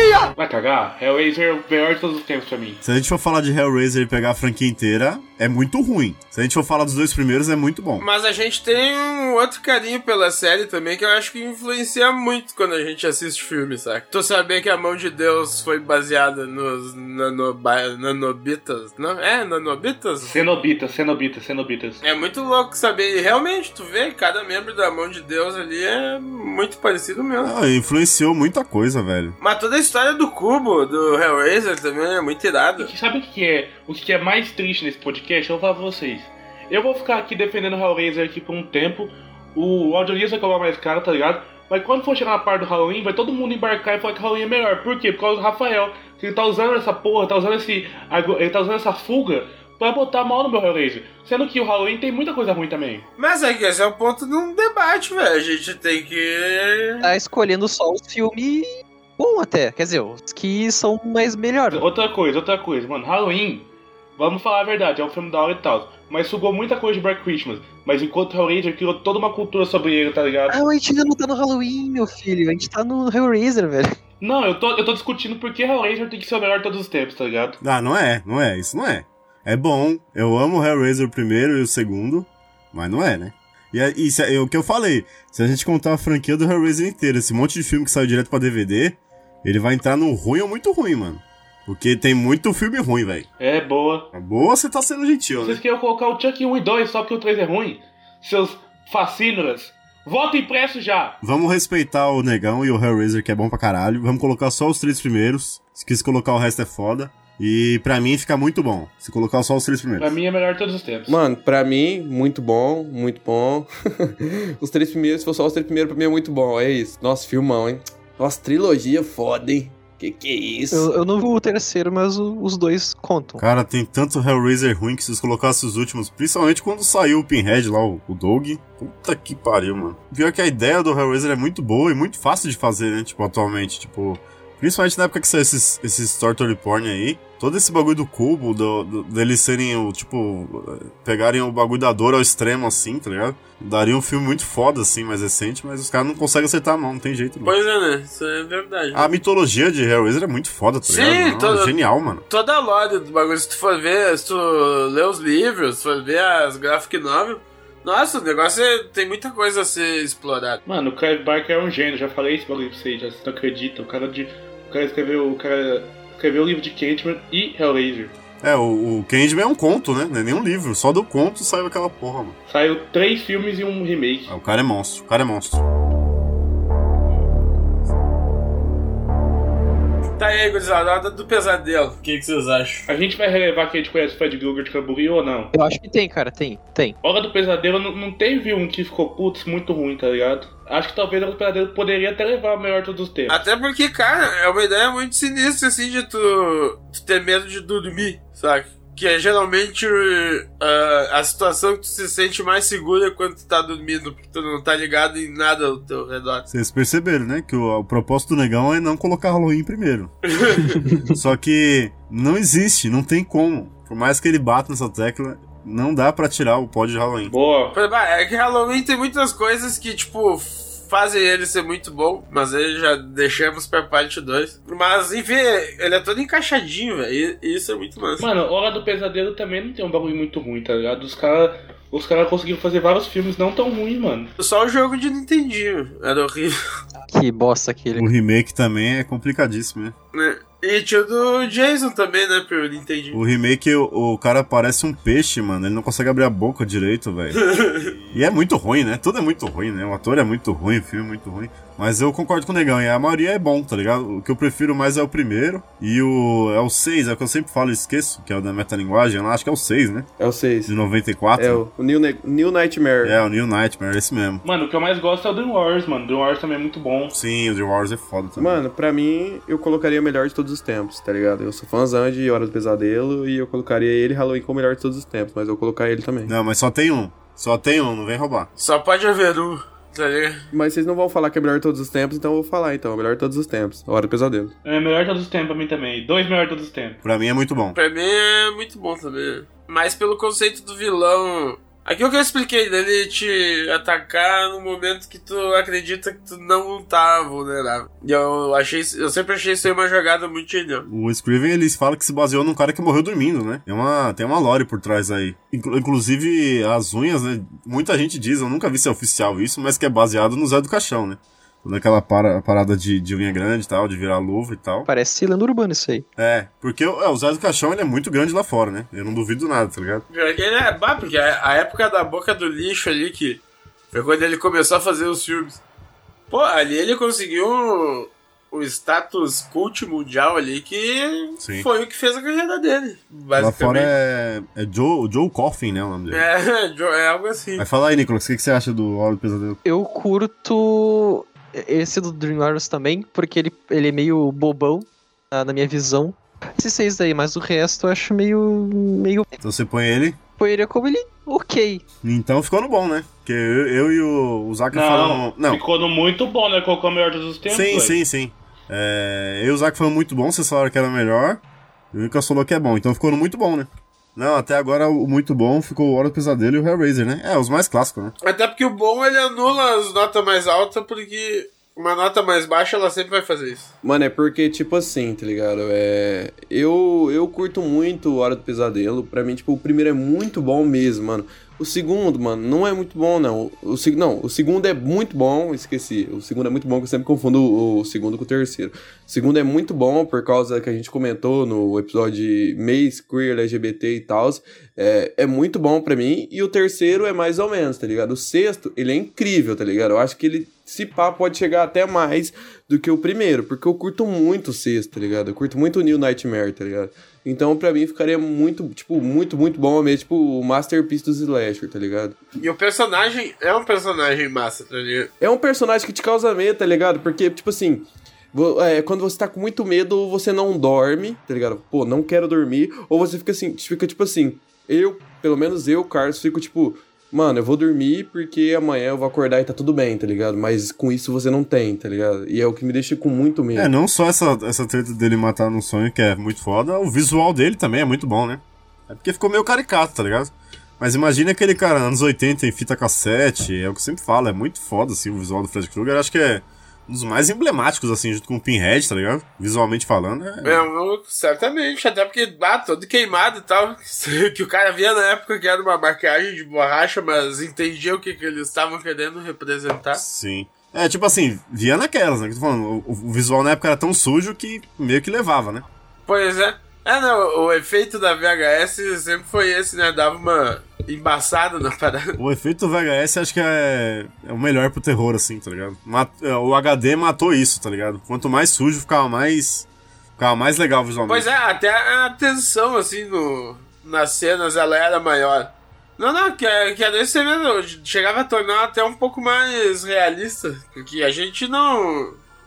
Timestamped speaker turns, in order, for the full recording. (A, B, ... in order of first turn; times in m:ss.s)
0:00.4-0:02.8 A
0:02.8-0:08.0 B
0:08.0-0:20.4 C
0:20.3-0:22.0 A
0:22.0-0:27.5 C
0:27.4-0:29.4 B
0:29.4-0:32.9 C
0:32.8-0:53.0 A
0:53.2-0:57.1 C
0:57.0-0:58.7 D
0:59.2-1:01.8 D
1:01.7-1:10.6 A
1:10.5-1:14.0 D
1:14.2-1:17.6 A
1:17.6-1:33.3 B
1:33.4-1:34.1 A
1:34.1-1:35.6 B
1:35.4-1:41.2 A
1:41.2-1:50.1 B
1:50.0-1:51.2 A
1:51.1-2:00.9 E
2:00.7-2:03.4 D
2:03.4-2:27.5 B
2:27.4-2:29.1 C
2:28.9-2:32.2 B
2:30.9-2:31.8 C
2:32.3-2:40.6 C
2:40.7-2:48.1 A
2:48.4-2:52.4 B
2:52.5-2:54.3 A
2:54.3-2:55.6 B
3:00.2-3:02.8 C
3:02.9-3:05.5 A
3:05.5-3:07.0 D
3:07.0-3:13.4 A
3:13.3-3:26.5 C
3:26.5-3:30.1 B
3:30.3-3:30.8 C
3:31.1-3:37.3 B
3:37.3-3:37.7 A
3:37.7-3:48.3 C
3:48.2-3:54.3 A
3:54.4-3:56.6 C
3:57.1-3:58.1 D
3:58.0-3:59.9 B
4:00.1-4:03.2 C
4:03.1-4:07.4 B
4:07.3-4:08.0 C
4:08.1-4:20.1 B
4:20.2-4:20.7 E
4:20.7-4:21.6 B
4:21.4-4:23.2 E
4:23.0-4:24.4 B
4:24.4-4:27.1 A
4:27.1-4:28.6 B
4:28.4-4:36.3 E
4:36.3-4:38.5 B
4:38.6-4:40.4 C
4:40.5-4:44.5 E
4:44.6-4:47.0 A
4:47.0-4:47.8 B
4:47.8-5:00.8 C
5:00.9-5:14.9 B
5:14.9-5:16.1 D
5:16.2-5:20.0 B
5:20.1-5:25.6 C
5:26.3-5:33.9 C
5:31.4-5:31.7 B
5:33.4-5:36.2 B
5:36.1-5:37.6 C
5:37.6-5:39.6 B
5:39.6-5:49.3 D
5:49.4-5:50.2 B
5:50.4-5:51.8 D
5:52.0-5:55.6 B
5:54.7-5:58.0 A
5:57.5-6:08.1 B
6:08.2-6:13.7 C
6:13.8-6:52.2 E
6:52.4-6:55.1 C
6:55.2-7:13.7 E
7:13.6-7:30.6 B
7:30.4-7:40.0 C
7:39.9-7:45.6 B
7:46.1-7:52.2 C
7:52.2-8:01.3 B
8:01.1-8:12.2 C